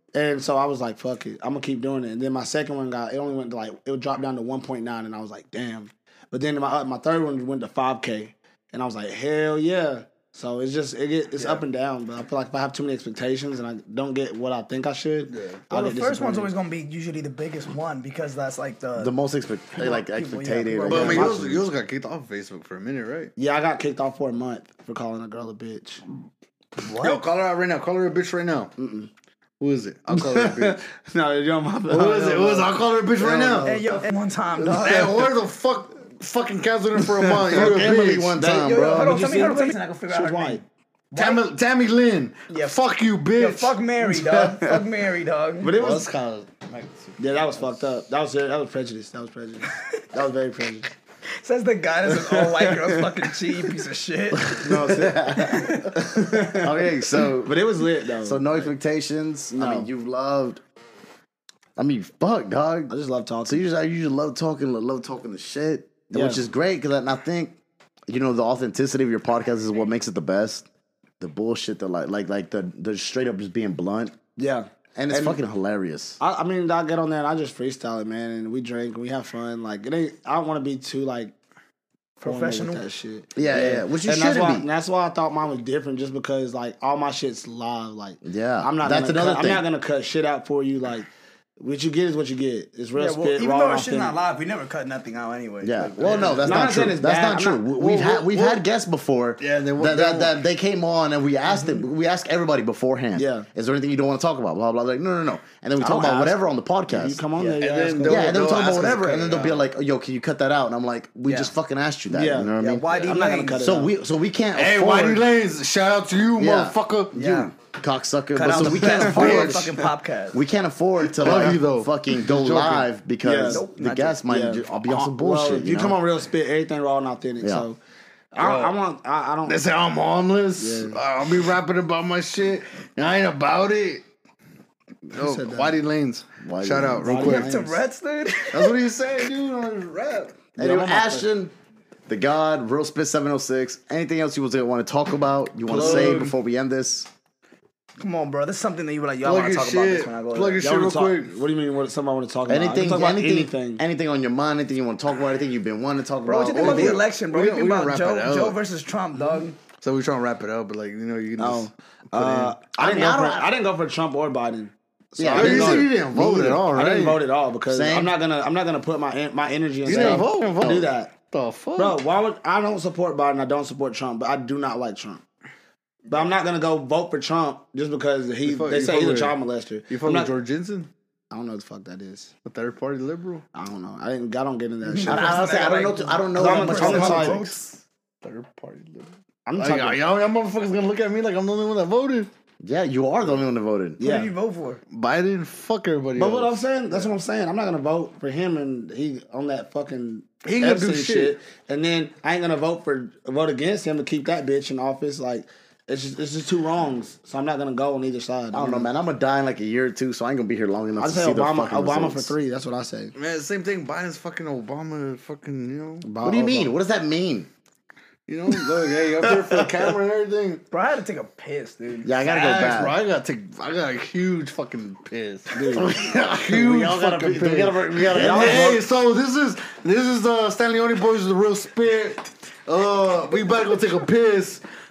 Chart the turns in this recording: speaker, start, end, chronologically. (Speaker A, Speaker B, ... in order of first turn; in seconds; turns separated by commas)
Speaker A: 0.1-16.5, Speaker B: 15.3-15.6, Speaker C: 15.7-19.1, Speaker D: 19.0-21.6, Speaker C: 19.7-21.3, Speaker B: 20.9-23.3, Speaker A: 20.9-21.4, Speaker A: 23.4-26.0, Speaker B: 26.9-28.7, Speaker A: 28.8-29.1, Speaker B: 29.6-30.8, Speaker A: 30.1-34.1, Speaker B: 31.9-33.8, Speaker C: 33.6-35.2, Speaker B: 34.6-38.3, Speaker A: 37.4-40.6, Speaker D: 37.5-39.2, Speaker C: 38.6-41.4, Speaker B: 41.1-44.7, Speaker C: 42.5-42.8, Speaker C: 43.4-45.7, Speaker A: 45.6-46.1, Speaker B: 45.7-47.8, Speaker A: 47.2-50.9, Speaker C: 51.4-54.6, Speaker D: 54.5-57.6, Speaker A: 54.6-58.7, Speaker C: 55.3-55.9, Speaker D: 58.2-60.6, Speaker A: 59.5-59.9, Speaker D: 61.8-62.9, Speaker A: 62.9-63.6, Speaker D: 63.5-67.5, Speaker A: 66.1-66.4, Speaker D: 68.1-70.7, Speaker D: 71.2-74.1, Speaker A: 74.3-75.4, Speaker D: 75.0-76.2, Speaker A: 76.2-81.3, Speaker C: 82.2-82.8, Speaker A: 82.2-94.2, Speaker D: 83.3-84.7, Speaker D: 88.2-89.7, Speaker C: 92.9-96.5, Speaker D: 95.6-112.8, Speaker B: 96.0-96.7, Speaker A: 96.4-97.7, Speaker B: 97.8-98.6, Speaker B: 99.4-100.4, Speaker A: 103.1-103.5, Speaker A: 105.8-106.3, Speaker A: 106.9-108.4, Speaker B: 107.6-109.6, Speaker C: 111.3-111.5, Speaker A: 112.1-113.9, Speaker C: 112.6-113.7, Speaker D: 113.6-115.2, Speaker B: 114.5-117.2, Speaker D: 116.4-119.7, Speaker C: 117.1-117.5, Speaker C: 118.3-120.4, Speaker B: 118.6-119.7, Speaker D: 120.3-126.0, Speaker B: 121.1-122.9, Speaker A: 123.2-123.6, Speaker C: 123.5-124.2, Speaker A: 124.2-127.8, Speaker D: 127.4-127.7, Speaker A: 128.3-129.6, Speaker B: 128.4-128.8, Speaker B: 129.4-134.0, Speaker A: 130.6-131.0, Speaker B: 135.1-137.5, Speaker A: 135.1-135.8, Speaker D: 136.4-137.1, Speaker A: 137.0-137.8, Speaker C: 137.1-138.7, Speaker B: 138.5-140.4, Speaker A: 140.6-141.3, Speaker D: 140.6-141.5, Speaker D: 142.1-147.1, Speaker A: 145.7-146.3, Speaker B: 145.7-146.3, Speaker C: 148.0-150.6, Speaker B: 149.2-151.3, Speaker A: 150.6-153.8, Speaker D: 152.5-157.0, Speaker C: 156.2-159.6, Speaker B: 156.6-158.6, Speaker B: 159.8-162.5, Speaker A: 161.4-165.9, Speaker D: 162.8-163.5, Speaker D: 165.2-166.7, Speaker B: 165.3-167.2, Speaker A: 166.7-171.1, Speaker D: 167.7-168.1, Speaker B: 169.8-172.0, Speaker D: 169.9-170.9, Speaker A: 171.8-175.2, Speaker A: 176.1-180.3, Speaker B: 178.4-179.3, Speaker B: 179.9-180.9, Speaker A: 181.3-182.3, Speaker B: 182.4-183.4, Speaker A: 183.5-185.5, Speaker C: 184.8-187.6, Speaker D: 185.0-187.4, Speaker A: 186.3-187.4, Speaker B: 187.3-192.3, Speaker A: 189.4-190.0, Speaker D: 192.6-194.0, Speaker A: 194.0-194.3, Speaker C: 194.0-194.8, Speaker B: 194.9-197.1, Speaker A: 196.1-208.9, Speaker B: 200.4-201.3, Speaker D: 208.5-212.3, Speaker A: 211.0-213.1, Speaker B: 213.2-216.1, Speaker A: 216.0-216.7, Speaker D: 216.2-217.5, Speaker B: 218.3-220.6, Speaker C: 220.7-222.1, Speaker D: 222.0-223.0, Speaker B: 222.2-234.6, Speaker A: 225.5-225.9, Speaker D: 225.7-228.8, Speaker A: 228.1-228.8